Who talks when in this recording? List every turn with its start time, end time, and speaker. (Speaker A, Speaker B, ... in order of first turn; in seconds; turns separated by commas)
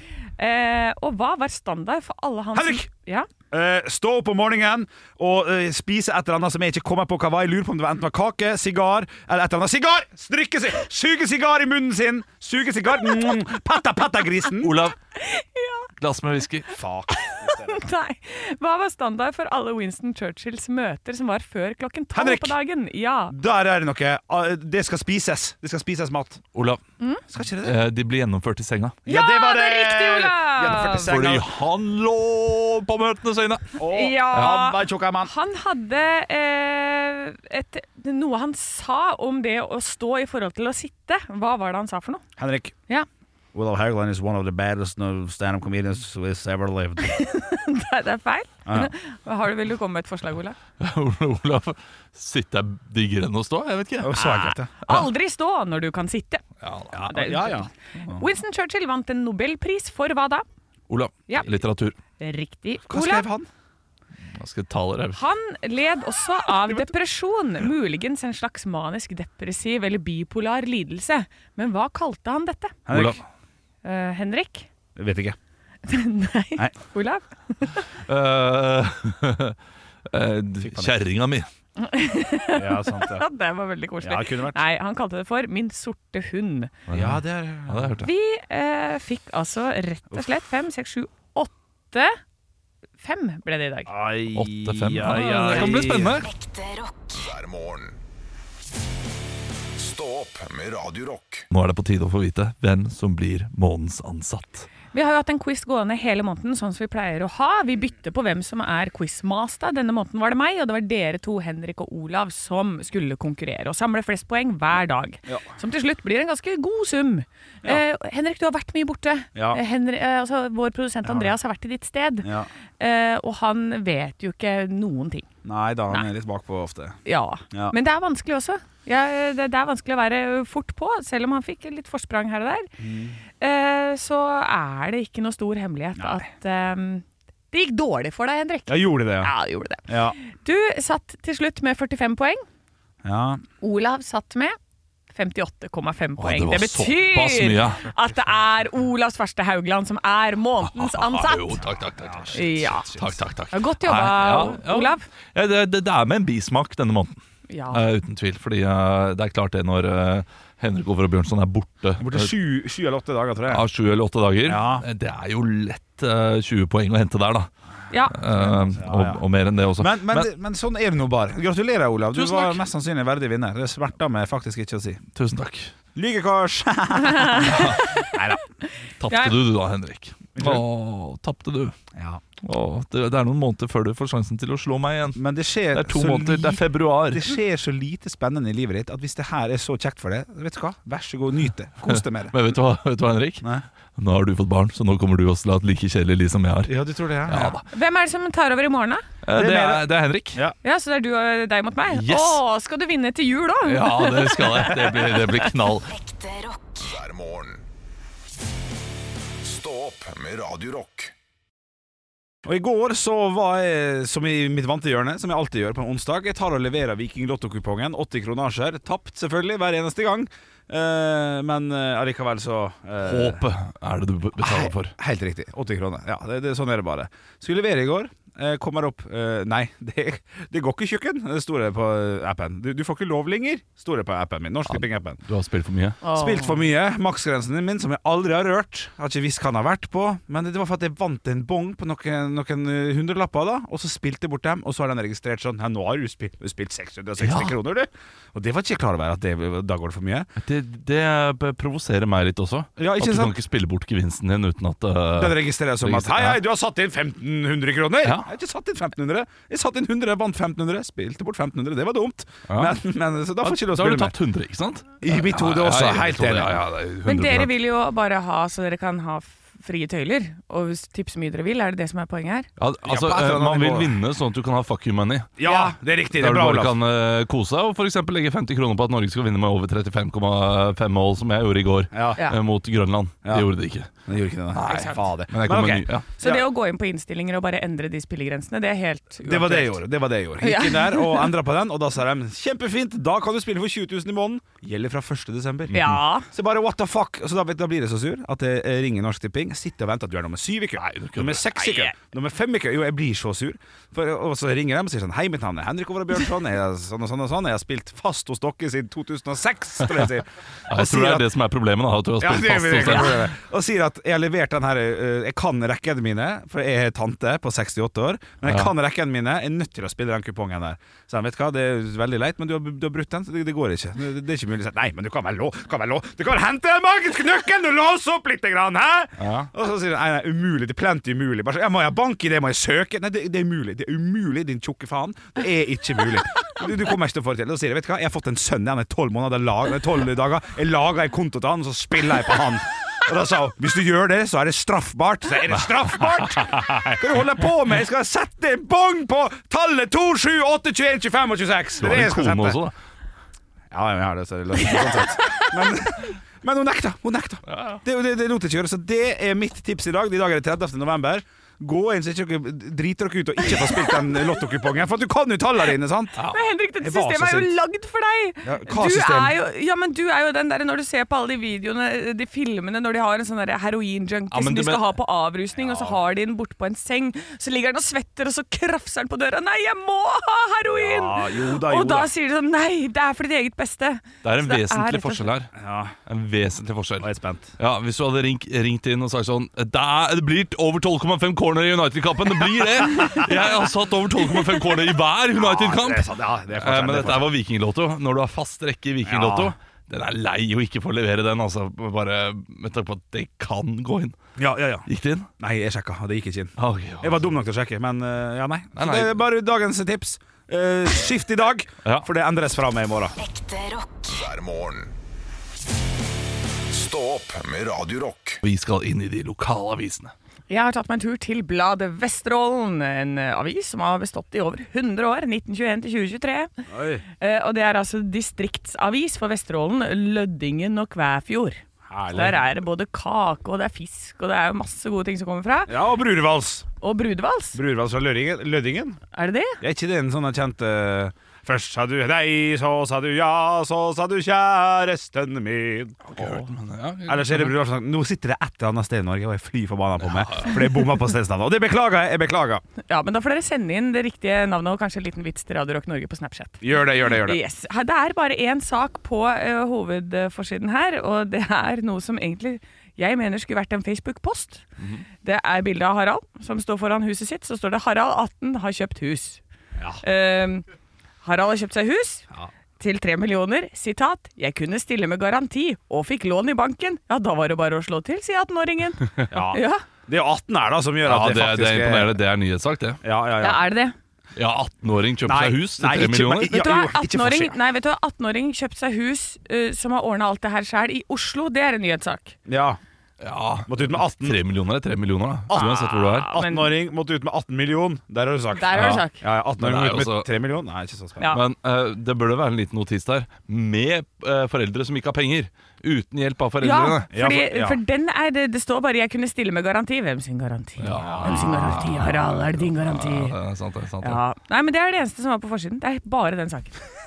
Speaker A: 0.4-3.3, Speaker B: 2.5-2.9, Speaker B: 3.5-14.8, Speaker C: 14.6-15.0, Speaker A: 15.1-15.9, Speaker C: 16.0-16.7, Speaker B: 16.7-17.9, Speaker A: 17.2-23.3, Speaker B: 22.1-22.6, Speaker B: 23.3-26.4, Speaker C: 26.5-26.8, Speaker B: 27.3-27.8, Speaker C: 27.6-29.0, Speaker A: 29.1-31.1, Speaker B: 29.1-31.5, Speaker C: 30.9-33.8, Speaker B: 33.8-35.3, Speaker A: 33.9-42.2, Speaker C: 34.3-34.6, Speaker B: 42.4-42.8, Speaker B: 43.5-47.2, Speaker A: 47.0-50.6, Speaker B: 48.7-48.9, Speaker C: 50.8-54.2, Speaker B: 54.0-54.7, Speaker A: 54.1-56.4, Speaker C: 56.6-57.0, Speaker B: 56.9-58.2, Speaker A: 57.1-60.5, Speaker C: 60.9-62.0, Speaker A: 62.2-63.3, Speaker B: 62.9-63.5, Speaker C: 64.3-65.2, Speaker A: 65.1-72.8, Speaker B: 72.9-73.2, Speaker C: 72.9-73.2, Speaker A: 73.8-74.7, Speaker B: 75.0-75.4, Speaker A: 75.8-77.9, Speaker C: 78.0-79.6, Speaker C: 80.1-81.5, Speaker B: 80.6-80.9, Speaker A: 81.8-86.8, Speaker B: 82.5-83.3, Speaker B: 84.0-84.6, Speaker C: 86.9-88.1, Speaker B: 86.9-88.0, Speaker A: 88.0-92.2, Speaker A: 93.0-93.9, Speaker B: 93.9-96.2, Speaker C: 94.3-96.3, Speaker D: 96.2-98.0, Speaker D: 99.7-101.5, Speaker C: 101.5-104.7, Speaker A: 104.9-125.3, Speaker B: 119.3-119.6, Speaker B: 121.0-121.3, Speaker B: 122.2-122.5, Speaker B: 125.5-127.0, Speaker A: 127.0-132.7, Speaker B: 132.8-133.2, Speaker A: 133.4-142.4, Speaker B: 136.0-136.2, Speaker B: 138.7-139.3, Speaker B: 139.9-140.2, Speaker B: 143.0-143.4, Speaker A: 143.6-144.6, Speaker A: 145.1-151.7, Speaker C: 146.2-147.8, Speaker C: 150.6-157.2, Speaker B: 152.0-153.2, Speaker A: 152.3-153.0, Speaker A: 153.5-155.1, Speaker A: 157.5-157.8, Speaker C: 157.7-162.3, Speaker B: 162.0-163.7, Speaker C: 163.5-167.5, Speaker B: 164.4-164.8, Speaker A: 167.9-168.2, Speaker C: 168.1-170.3, Speaker B: 168.3-169.2, Speaker B: 169.8-175.0, Speaker C: 172.1-172.6, Speaker C: 175.1-175.7, Speaker B: 175.9-178.4, Speaker A: 177.0-178.1, Speaker C: 177.4-177.8, Speaker C: 179.0-181.8, Speaker A: 179.1-179.3, Speaker B: 180.4-180.6, Speaker B: 181.9-182.2, Speaker C: 182.4-185.2, Speaker B: 185.2-192.4, Speaker C: 185.7-187.4, Speaker C: 191.9-197.6, Speaker B: 196.7-197.6, Speaker A: 197.7-199.1, Speaker C: 199.2-200.4, Speaker B: 199.3-200.6, Speaker A: 200.6-205.5, Speaker C: 201.9-202.4, Speaker C: 203.7-205.9, Speaker D: 205.9-207.7, Speaker D: 209.4-211.1, Speaker B: 212.4-223.4, Speaker C: 223.0-224.9, Speaker B: 224.4-235.2, Speaker C: 234.7-236.0, Speaker A: 236.0-236.6, Speaker B: 236.1-250.3, Speaker C: 247.2-247.6, Speaker C: 250.4-256.4, Speaker B: 252.8-253.4, Speaker B: 255.2-264.1, Speaker C: 258.0-258.3, Speaker C: 262.5-262.8, Speaker C: 263.4-267.5, Speaker B: 265.0-266.6, Speaker A: 267.1-272.5, Speaker C: 272.6-275.3, Speaker B: 272.8-274.0, Speaker B: 275.4-276.8, Speaker A: 275.4-275.7, Speaker C: 276.1-283.9, Speaker B: 281.9-282.2, Speaker B: 284.1-286.5, Speaker C: 284.5-286.1, Speaker A: 284.6-285.0, Speaker A: 286.2-289.8, Speaker B: 289.2-311.3, Speaker A: 290.4-291.3, Speaker C: 295.7-296.0, Speaker A: 295.7-296.3, Speaker C: 300.8-301.4, Speaker A: 301.6-301.9, Speaker C: 310.7-313.3, Speaker B: 312.2-352.6, Speaker C: 329.2-329.5, Speaker C: 346.5-346.8, Speaker C: 351.8-352.7, Speaker B: 353.7-366.2, Speaker C: 357.5-357.8, Speaker A: 366.3-385.3, Speaker B: 366.8-367.5, Speaker B: 368.4-369.4, Speaker C: 374.3-374.9, Speaker B: 375.6-376.0, Speaker B: 380.8-382.1, Speaker C: 384.2-385.5, Speaker B: 385.6-385.9, Speaker C: 386.1-404.2, Speaker B: 387.0-387.5, Speaker B: 395.4-397.3, Speaker B: 399.1-399.6, Speaker B: 404.4-404.9, Speaker C: 404.9-405.3, Speaker B: 405.4-413.2, Speaker C: 406.6-407.2, Speaker C: 408.8-409.2, Speaker D: 413.2-414.9, Speaker D: 416.6-418.4, Speaker C: 418.4-420.1, Speaker A: 420.5-426.5, Speaker B: 426.7-427.0, Speaker A: 427.2-431.6, Speaker B: 431.9-432.4, Speaker A: 432.1-435.8, Speaker B: 435.7-436.7, Speaker A: 436.8-437.6, Speaker B: 437.6-439.0, Speaker A: 439.1-439.6, Speaker B: 439.6-446.5, Speaker C: 446.1-447.6, Speaker B: 447.1-452.6, Speaker C: 450.0-450.8, Speaker A: 452.8-464.6, Speaker B: 456.6-457.4, Speaker C: 464.8-465.0, Speaker A: 465.2-469.4, Speaker A: 470.0-470.6, Speaker A: 471.2-472.2, Speaker A: 472.8-479.8, Speaker B: 479.3-482.2, Speaker C: 481.1-483.0, Speaker B: 483.0-483.6, Speaker A: 483.4-484.0, Speaker C: 484.4-486.6, Speaker B: 485.2-487.6, Speaker A: 486.5-492.4, Speaker B: 492.5-492.8, Speaker C: 493.2-496.3, Speaker B: 493.7-494.4, Speaker B: 495.5-501.4, Speaker A: 495.5-496.7, Speaker A: 498.6-499.2, Speaker C: 498.7-499.1, Speaker C: 499.6-500.3, Speaker C: 501.3-507.1, Speaker A: 506.6-513.4, Speaker B: 507.1-507.8, Speaker C: 510.8-514.2, Speaker B: 511.1-511.6, Speaker A: 514.0-516.8